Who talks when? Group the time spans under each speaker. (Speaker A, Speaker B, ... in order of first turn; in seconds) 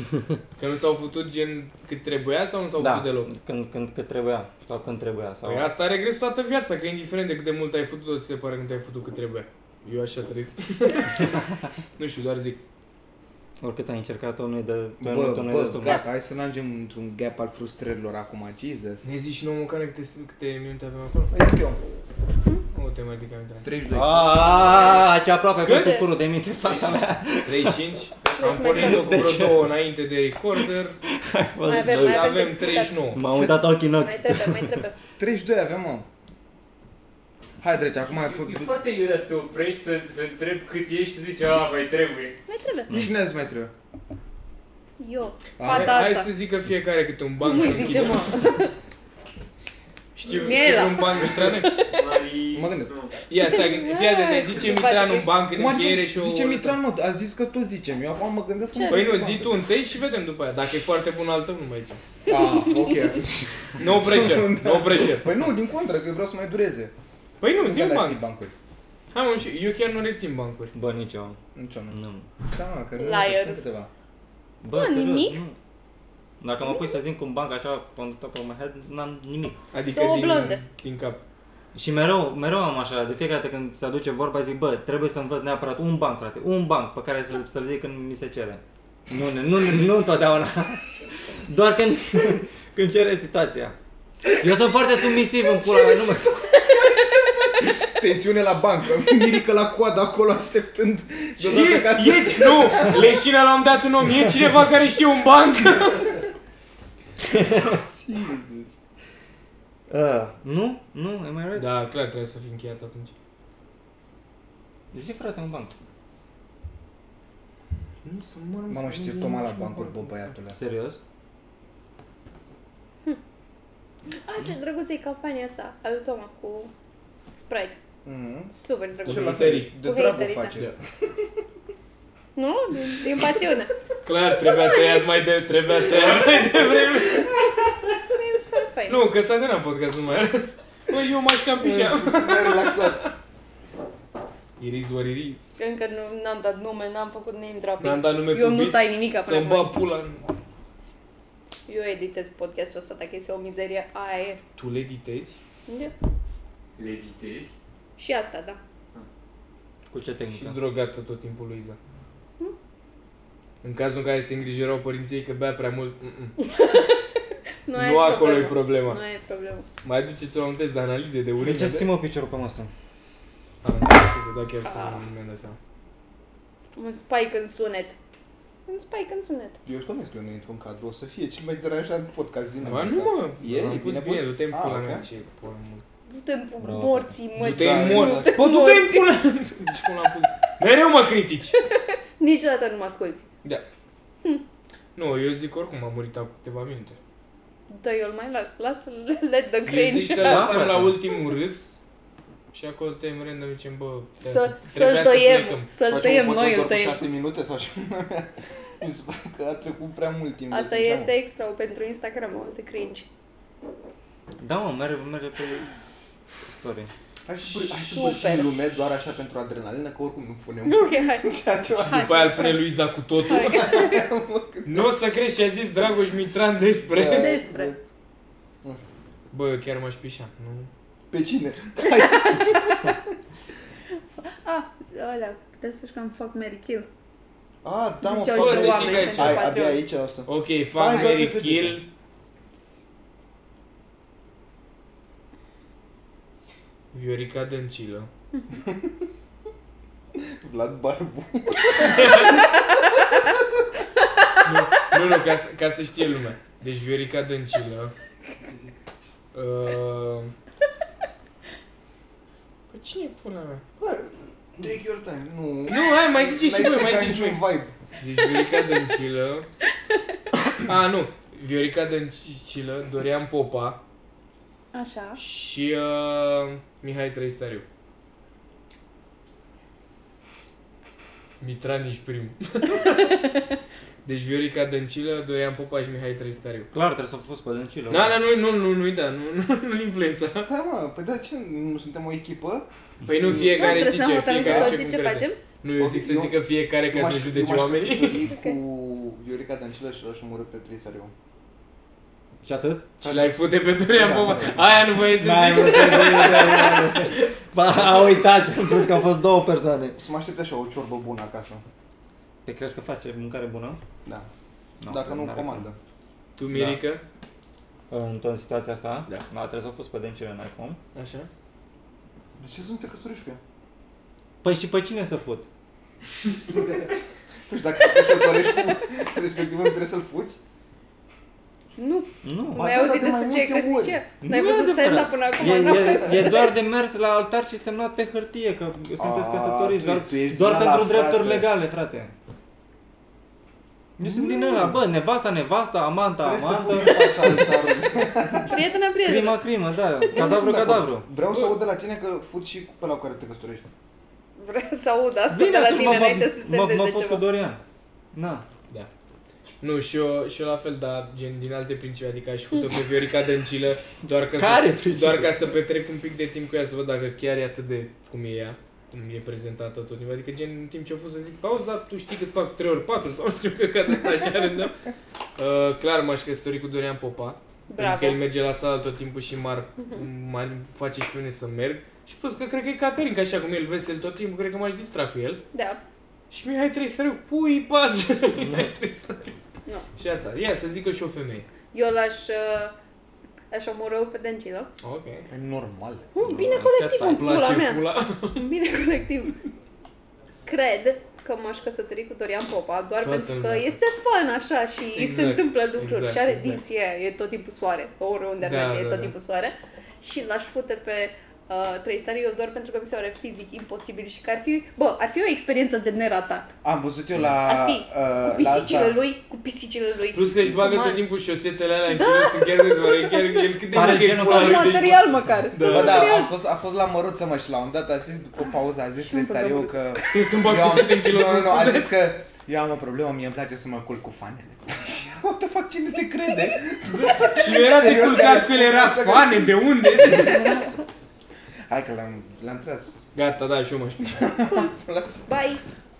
Speaker A: 0.6-3.3, 5.4-11.4, 12.0-12.6, 19.0-21.3, 22.7-23.7, 25.6-26.0, 27.4-31.0, 31.8-33.2, 45.6-48.5, 50.1-51.8, 53.3-56.8, 58.9-62.0, 63.8-65.3, 67.4-68.2, 69.1-70.7, 79.7-81.2, 101.4-106.2, 111.5-113.1, 118.0-120.3, 129.0-129.7, 134.0-137.3, 138.9-143.1, 144.6-145.5, 147.8-150.3, 154.6-155.4, 160.3-161.8, 163.6-166.4, 167.8-169.0, 169.8-171.9, 173.6-175.6, 182.6-185.8, 187.4-191.6, 194.9-197.0, 199.7-201.8, 202.5-205.7, 221.9-223.8, 224.6-227.3, 229.3-230.7, 238.3-239.5, 240.3-241.9, 246.9-248.1, 254.4-257.9, 259.3-260.3, 262.7-263.6, 265.7-267.4, 268.0-269.5, 270.6-273.8, 275.2-277.6, 281.4-283.4, 284.0-286.7, 287.9-290.5, 293.1-298.3, 303.0-306.9, 316.4-317.0, 320.9-321.3, 359.6-374.8, 375.4-385.4, 386.3-389.4, 390.0-391.5, 394.8-395.3, 397.0-398.4, 403.0-403.8, 405.0-406.6, 408.4-409.1, 420.1-426.2, 430.1-432.1, 437.0-440.7, 443.1-444.3
Speaker B: 2.8-5.7, 13.6-16.0, 23.9-27.8, 28.6-29.7, 31.1-32.4, 33.1-34.8, 70.7-71.4, 71.9-72.2, 74.6-75.6, 76.4-79.6, 81.7-93.8, 94.4-96.4, 107.3-107.8, 109.9-111.7, 114.9-115.7, 120.5-121.0, 159.9-160.6, 171.4-172.7, 183.5-183.8, 186.6-187.2, 200.2-201.0, 214.4-215.6, 216.5-216.9, 286.7-288.2, 302.4-302.9, 305.1-310.0, 312.4-313.8, 314.8-315.6, 316.5-316.8, 317.9-320.8, 324.4-325.5, 332.2-332.6, 334.2-342.1, 344.0-348.5, 349.0-351.1, 355.3-357.6, 358.1-358.4, 364.3-365.5, 388.4-388.7, 396.5-397.5, 423.7-424.9, 440.0-440.7
Speaker C: 15.0-19.1, 21.3-21.8, 23.6-25.1, 35.2-36.1, 37.6-38.7, 42.9-43.7, 45.6-46.1, 52.5-52.9, 55.5-59.6, 62.3-66.9, 67.6-68.5, 71.5-73.9, 97.6-103.1, 107.7-108.8, 118.7-120.6, 128.0-128.5, 129.0-130.8, 141.6-143.0, 179.6-185.1, 187.5-188.4, 205.8-211.1, 217.3-222.6, 223.2-224.9, 226.9-227.8, 231.1-232.9, 237.6-241.8, 250.2-252.8, 263.8-267.8, 290.4-292.7, 293.2-294.8, 295.8-296.4, 296.9-301.1, 303.0-303.3, 303.9-304.7, 310.0-311.6, 314.9-315.8, 322.4-323.4, 326.5-326.9, 327.5-330.4, 332.5-334.0, 339.0-341.5, 344.0-344.9, 346.2-348.6, 350.1-353.7, 395.3-396.8, 416.6-419.0, 425.6-439.5, 441.7-443.0, 444.1-445.2
Speaker D: 25.6-26.1, 28.4-29.2, 31.6-33.1, 33.9-35.0, 42.5-42.9, 45.0-46.3, 47.4-48.7, 50.4-51.9, 53.4-55.3, 58.7-59.2, 62.3-63.1, 73.0-73.6, 74.7-75.4, 76.6-77.0, 79.9-80.6, 95.6-97.8, 124.1-126.7, 127.3-127.8, 128.5-130.6, 132.3-133.8, 134.3-135.3, 136.0-139.0, 145.6-149.7, 151.7-154.4, 155.7-155.9, 158.0-158.6, 166.4-167.1, 167.7-169.7, 174.6-175.0, 176.8-178.0, 178.7-179.6, 186.1-189.1, 191.6-193.2, 197.7-200.6, 204.2-207.0, 210.5-213.1, 217.8-218.5, 220.6-222.6, 223.3-224.1, 227.0-227.7, 232.1-232.8, 234.2-236.9, 238.0-239.8, 274.7-275.2, 293.5-295.4, 298.2-298.6, 331.8-336.6, 348.4-349.4, 354.4-357.2, 377.7-378.2, 385.5-385.8, 391.7-392.8, 393.5-394.7, 396.1-399.4, 400.5-416.5, 417.5-421.0, 421.9-426.3, 428.9-430.4, 444.3-445.6
Speaker E: 26.6-27.1, 38.0-42.4, 50.2-53.2, 156.8-157.5